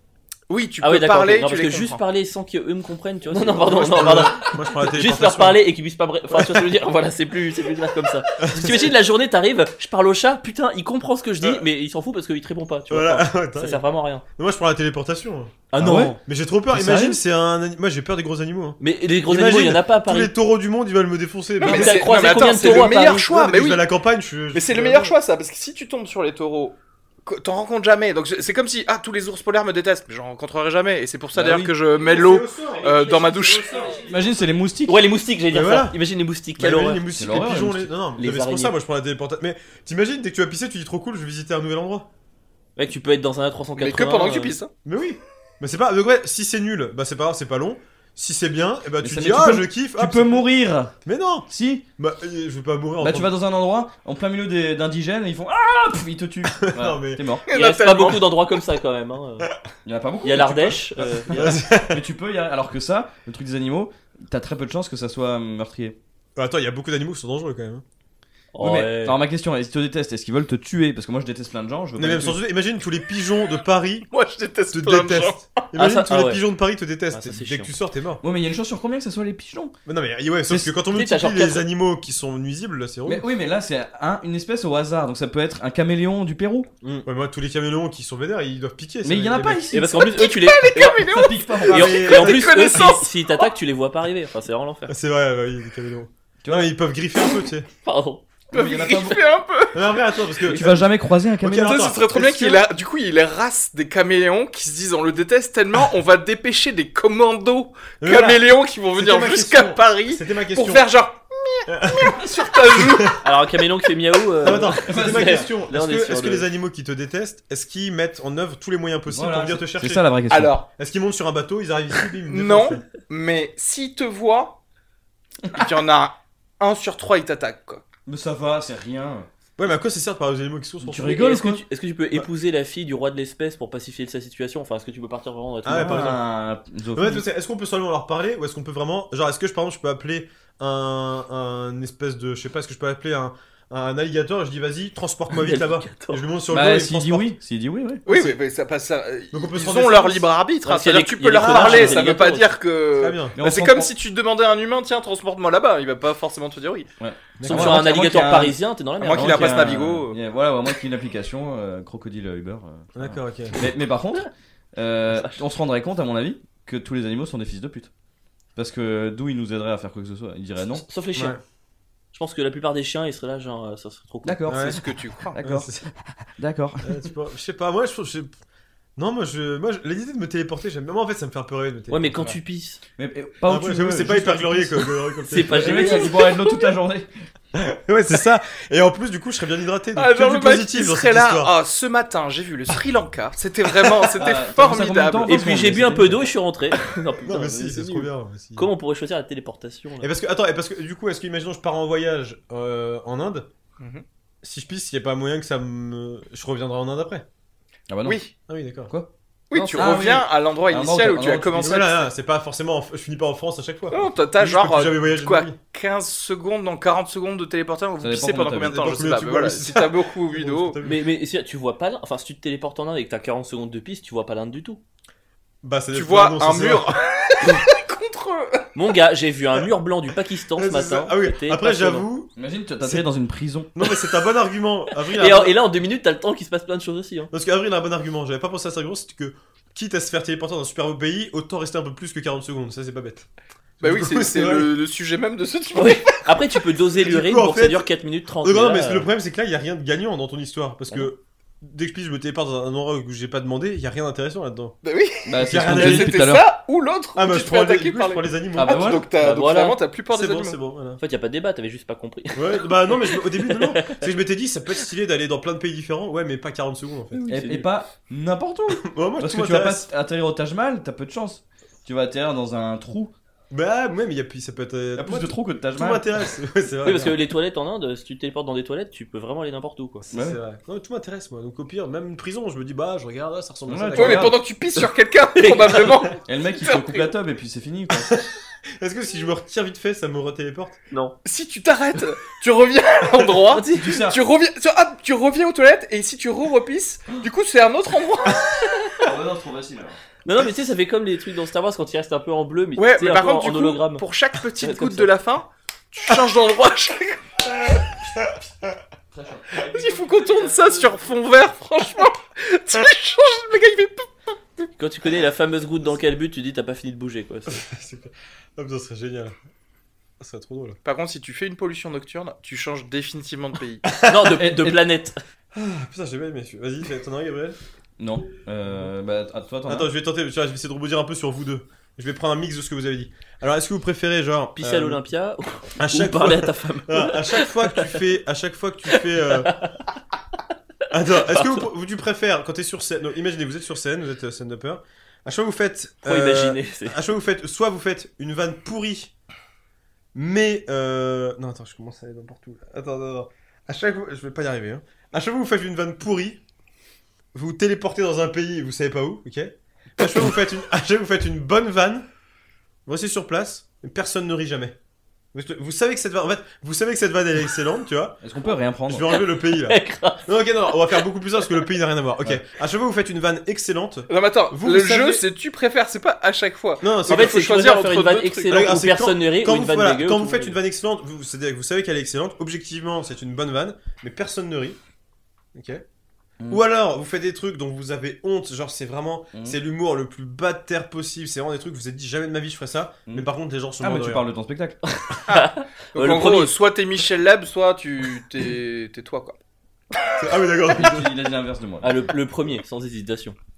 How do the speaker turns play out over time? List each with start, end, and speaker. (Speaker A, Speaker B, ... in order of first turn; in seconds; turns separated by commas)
Speaker A: 0.5-2.0, Speaker B: 0.8-14.2, Speaker C: 3.3-5.7, Speaker C: 6.3-6.7, Speaker C: 8.4-8.9, Speaker C: 12.9-13.8, Speaker C: 14.4-25.1, Speaker B: 15.7-16.2, Speaker D: 15.8-16.1, Speaker B: 16.7-17.2, Speaker B: 18.8-20.3, Speaker B: 21.6-23.2, Speaker A: 21.6-23.8, Speaker A: 24.5-34.0, Speaker D: 31.3-31.7, Speaker C: 31.9-34.0, Speaker B: 33.1-34.1, Speaker D: 34.0-35.0, Speaker B: 34.9-37.0, Speaker C: 35.5-36.0, Speaker C: 36.5-42.1, Speaker D: 37.1-37.9, Speaker B: 38.1-38.8, Speaker B: 42.8-44.5, Speaker A: 43.8-44.7, Speaker C: 44.8-50.5, Speaker D: 49.0-51.0, Speaker C: 51.0-53.3, Speaker D: 51.5-51.8, Speaker D: 53.0-57.5, Speaker C: 56.5-57.3, Speaker A: 57.5-58.4, Speaker B: 57.5-59.5, Speaker D: 59.8-60.8, Speaker B: 60.2-61.6, Speaker C: 61.3-62.0, Speaker D: 61.4-66.0, Speaker C: 66.3-67.8, Speaker B: 68.5-69.2, Speaker D: 68.6-72.4, Speaker C: 72.0-74.1, Speaker A: 74.1-75.5, Speaker C: 74.7-78.2, Speaker B: 75.7-76.4, Speaker B: 77.1-77.7, Speaker D: 78.2-79.8, Speaker C: 79.8-83.2, Speaker B: 80.9-81.6, Speaker D: 83.0-86.7, Speaker C: 86.8-89.7, Speaker D: 89.0-90.0, Speaker B: 89.7-91.1, Speaker A: 90.0-93.1, Speaker D: 90.9-92.1, Speaker C: 91.7-93.0, Speaker B: 91.7-95.0, Speaker C: 94.9-97.7, Speaker D: 96.4-96.7, Speaker B: 97.8-98.2, Speaker D: 98.5-99.2, Speaker A: 98.5-100.0, Speaker C: 99.7-102.6, Speaker D: 100.5-101.8, Speaker A: 101.5-113.2, Speaker C: 108.0-110.9, Speaker C: 111.7-112.2, Speaker C: 112.7-113.2, Speaker B: 113.2-116.5, Speaker C: 114.4-120.1, Speaker D: 114.5-115.5, Speaker D: 119.1-120.6, Speaker A: 120.3-120.7, Speaker C: 120.8-122.8, Speaker A: 122.3-124.6, Speaker A: 125.5-127.8, Speaker D: 128.1-129.3, Speaker C: 129.6-131.2, Speaker B: 130.8-136.1, Speaker D: 130.9-131.6, Speaker C: 135.6-136.2, Speaker D: 135.7-137.2, Speaker C: 136.9-147.3, Speaker B: 145.3-146.2, Speaker D: 146.5-148.0, Speaker A: 148.1-156.9, Speaker C: 148.1-148.3, Speaker C: 149.3-150.3, Speaker B: 150.6-152.5, Speaker C: 151.3-152.0, Speaker C: 153.0-153.3, Speaker D: 153.4-153.9, Speaker D: 157.0-167.9, Speaker C: 157.4-157.9, Speaker B: 157.4-159.7, Speaker A: 159.0-160.2, Speaker C: 162.9-163.6, Speaker B: 165.1-165.4, Speaker D: 168.6-170.8, Speaker B: 170.8-171.4, Speaker B: 172.1-174.4, Speaker D: 174.2-177.0, Speaker C: 174.5-174.8, Speaker A: 174.6-175.3, Speaker C: 175.4-175.9, Speaker C: 176.8-178.3, Speaker C: 179.0-182.2, Speaker B: 181.9-182.8, Speaker D: 183.0-187.1, Speaker C: 183.4-186.1, Speaker B: 185.2-186.2, Speaker C: 187.5-191.5, Speaker A: 189.9-195.4, Speaker C: 193.8-194.1, Speaker D: 194.1-196.3, Speaker B: 195.3-200.1, Speaker C: 197.2-198.7, Speaker C: 200.0-203.5, Speaker A: 203.8-204.0, Speaker C: 204.4-207.2, Speaker D: 207.9-208.3, Speaker A: 208.0-208.3, Speaker C: 208.5-208.9, Speaker A: 209.5-212.1, Speaker B: 209.5-210.0, Speaker D: 209.7-211.8, Speaker C: 211.6-215.6, Speaker A: 213.9-220.8, Speaker D: 218.0-218.8, Speaker C: 218.7-221.1, Speaker B: 220.8-224.8, Speaker C: 225.6-227.6, Speaker A: 225.9-228.7, Speaker B: 228.7-232.1, Speaker C: 230.5-233.1, Speaker D: 232.3-233.7, Speaker C: 233.7-235.6, Speaker B: 235.1-237.3, Speaker C: 237.3-243.3, Speaker C: 243.8-244.7, Speaker A: 243.8-246.3, Speaker B: 245.7-249.1, Speaker C: 246.8-254.8, Speaker A: 254.8-260.6, Speaker D: 255.2-256.6, Speaker C: 255.3-256.3, Speaker C: 257.1-258.9, Speaker D: 258.5-259.1, Speaker B: 259.1-259.8, Speaker C: 260.1-261.0, Speaker B: 261.0-264.1, Speaker C: 262.3-267.2, Speaker B: 267.1-267.7, Speaker D: 267.3-273.1, Speaker C: 268.7-269.9, Speaker C: 273.5-277.2, Speaker D: 274.9-276.1, Speaker B: 276.8-280.1, Speaker C: 280.0-284.3, Speaker D: 280.1-280.4, Speaker D: 283.7-284.4, Speaker A: 283.9-287.1, Speaker B: 285.3-286.1, Speaker D: 286.2-288.1, Speaker C: 287.9-288.2, Speaker C: 288.8-290.8, Speaker A: 291.2-299.1, Speaker B: 293.5-294.0, Speaker D: 293.7-294.2, Speaker D: 299.0-300.0, Speaker B: 300.2-304.0, Speaker A: 302.8-307.8, Speaker B: 304.6-305.1, Speaker D: 309.1-309.7, Speaker B: 309.6-311.0, Speaker A: 309.6-314.1, Speaker B: 314.8-317.6, Speaker C: 317.5-319.3, Speaker C: 320.2-320.8, Speaker A: 320.8-323.9, Speaker C: 323.9-324.5, Speaker B: 324.1-325.2, Speaker D: 324.4-324.8, Speaker C: 325.5-327.6, Speaker D: 328.0-329.9, Speaker C: 329.7-335.0, Speaker B: 334.5-338.0, Speaker C: 335.8-339.6, Speaker B: 338.9-339.8, Speaker C: 340.9-349.1, Speaker B: 341.1-341.6, Speaker B: 346.0-347.0, Speaker C: 350.1-356.4, Speaker C: 357.3-362.1, Speaker C: 362.9-364.8, Speaker C: 365.3-368.2, Speaker D: 368.2-369.2, Speaker C: 368.9-375.2, Speaker B: 369.5-370.3, Speaker A: 374.1-378.8, Speaker C: 376.8-377.5, Speaker B: 377.1-380.6, Speaker C: 378.5-384.8, Speaker C: 385.5-385.8, Speaker C: 386.5-394.2, Speaker D: 393.8-394.8, Speaker B: 395.0-396.5, Speaker A: 395.3-399.4, Speaker C: 400.1-401.1, Speaker D: 400.7-402.1, Speaker B: 401.8-403.4